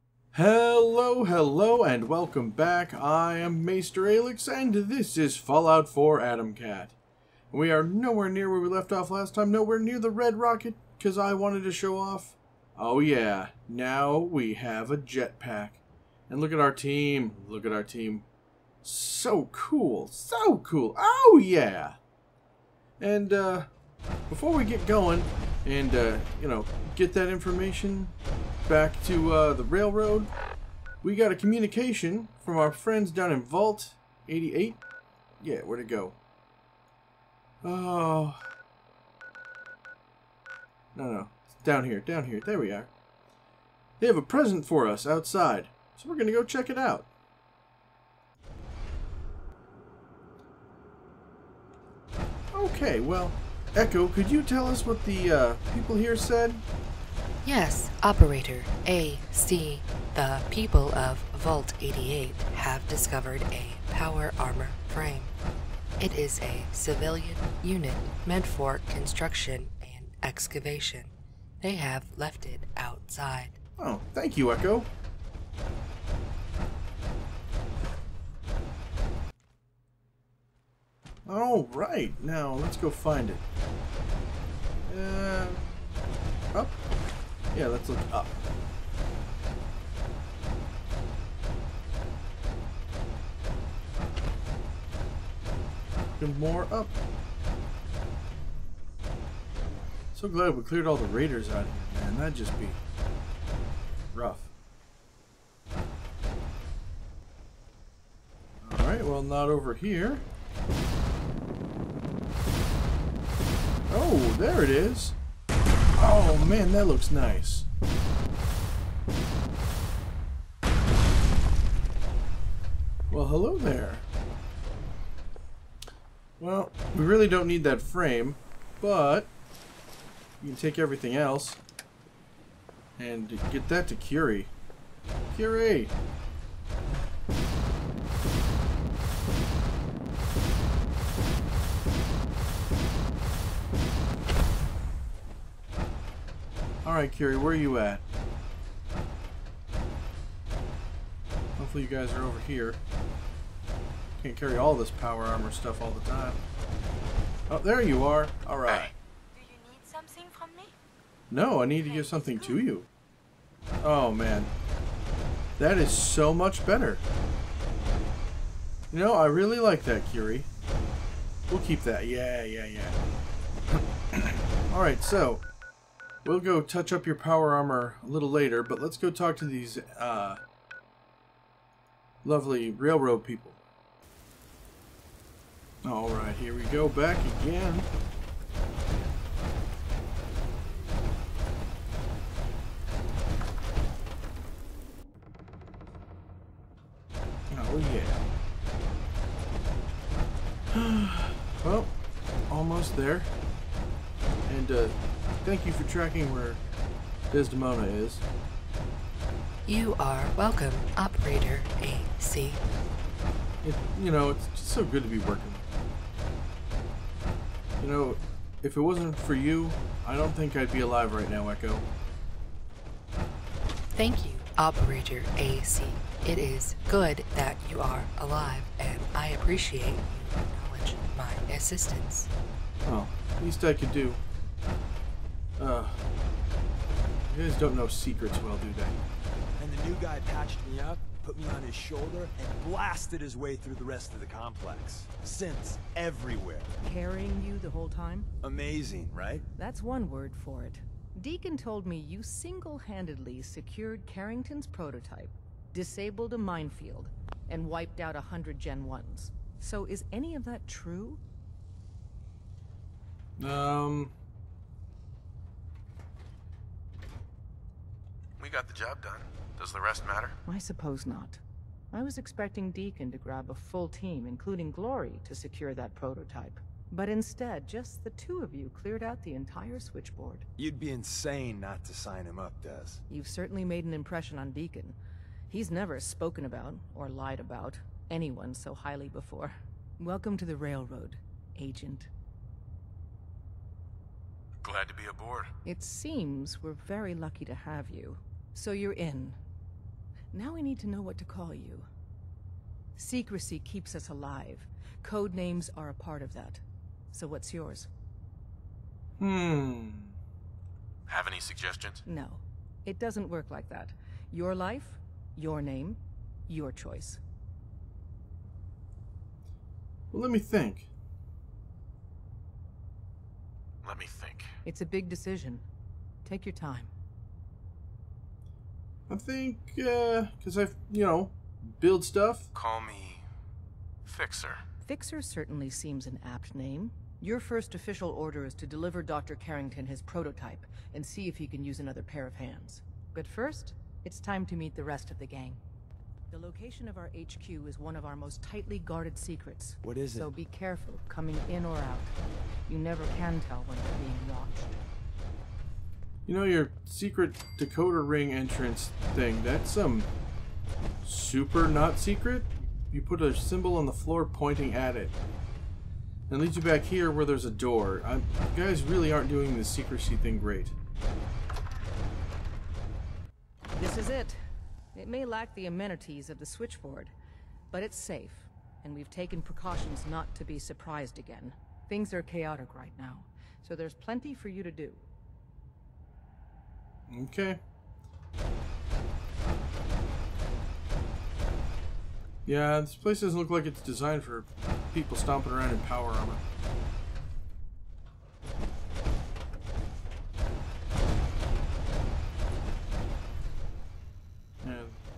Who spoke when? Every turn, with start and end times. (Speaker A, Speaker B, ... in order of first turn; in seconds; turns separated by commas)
Speaker A: 0.3-7.0, Speaker A: 7.5-18.2, Speaker A: 18.8-22.0, Speaker A: 23.0-23.7, Speaker A: 24.3-30.3, Speaker A: 31.0-34.8, Speaker A: 35.4-36.2, Speaker A: 37.6-38.5, Speaker A: 41.0-42.9, Speaker A: 44.0-47.1, Speaker A: 52.5-56.6, Speaker B: 57.4-65.3, Speaker B: 66.0-73.6, Speaker A: 73.8-74.9, Speaker A: 81.2-83.4, Speaker A: 84.8-86.0, Speaker A: 87.5-88.4, Speaker A: 96.2-97.0, Speaker A: 100.1-102.8, Speaker A: 104.1-104.5, Speaker A: 108.6-110.2, Speaker A: 113.9-115.2, Speaker A: 116.0-117.7, Speaker A: 123.1-124.0, Speaker A: 126.4-129.3, Speaker A: 130.4-131.6, Speaker A: 133.0-134.5, Speaker A: 135.3-135.9, Speaker A: 146.8-148.0, Speaker A: 151.6-152.8, Speaker A: 154.2-156.4, Speaker A: 157.5-158.9, Speaker C: 158.7-158.9, Speaker D: 159.3-160.7, Speaker A: 161.3-162.9, Speaker D: 161.8-162.6, Speaker A: 163.8-164.5, Speaker A: 165.6-167.0, Speaker A: 168.9-170.5, Speaker A: 171.5-173.0, Speaker A: 174.1-175.5, Speaker A: 176.2-180.4, Speaker A: 182.2-183.6, Speaker A: 185.8-187.9, Speaker A: 197.5-198.3, Speaker A: 200.7-201.9, Speaker A: 202.5-203.3, Speaker A: 204.5-206.6, Speaker A: 207.3-208.2, Speaker B: 209.7-212.6, Speaker A: 213.6-215.7, Speaker A: 217.8-221.9, Speaker B: 223.9-232.3, Speaker A: 232.8-234.2, Speaker A: 235.6-236.0, Speaker A: 237.2-239.0, Speaker E: 239.6-246.8, Speaker F: 246.8-248.3, Speaker E: 248.4-249.4, Speaker F: 249.6-261.2, Speaker A: 263.4-264.1, Speaker C: 268.4-270.4, Speaker F: 270.5-271.4, Speaker F: 271.9-280.5, Speaker E: 280.6-283.0, Speaker F: 283.1-285.0, Speaker F: 285.5-292.1, Speaker C: 294.6-295.5, Speaker F: 295.6-299.4, Speaker F: 300.3-301.9, Speaker F: 303.0-306.6, Speaker F: 307.1-307.9, Speaker A: 309.2-310.1, Speaker C: 311.1-312.0, Speaker F: 312.1-317.2, Speaker A: 320.1-320.9, Speaker C: 323.8-324.5, Speaker F: 324.6-325.6, Speaker F: 326.2-326.9, Speaker A: 329.1-332.5, Speaker C: 332.5-333.2, Speaker C: 334.1-334.6, Speaker F: 334.8-345.6, Speaker F: 346.3-354.8, Speaker E: 349.9-350.2, Speaker A: 356.3-360.1, Speaker A: 361.0-365.2, Speaker A: 366.3-370.7, Speaker F: 373.7-374.4, Speaker F: 374.9-377.1, Speaker F: 377.7-385.1, Speaker A: 387.1-387.6, Speaker A: 392.5-396.4, Speaker A: 404.6-405.0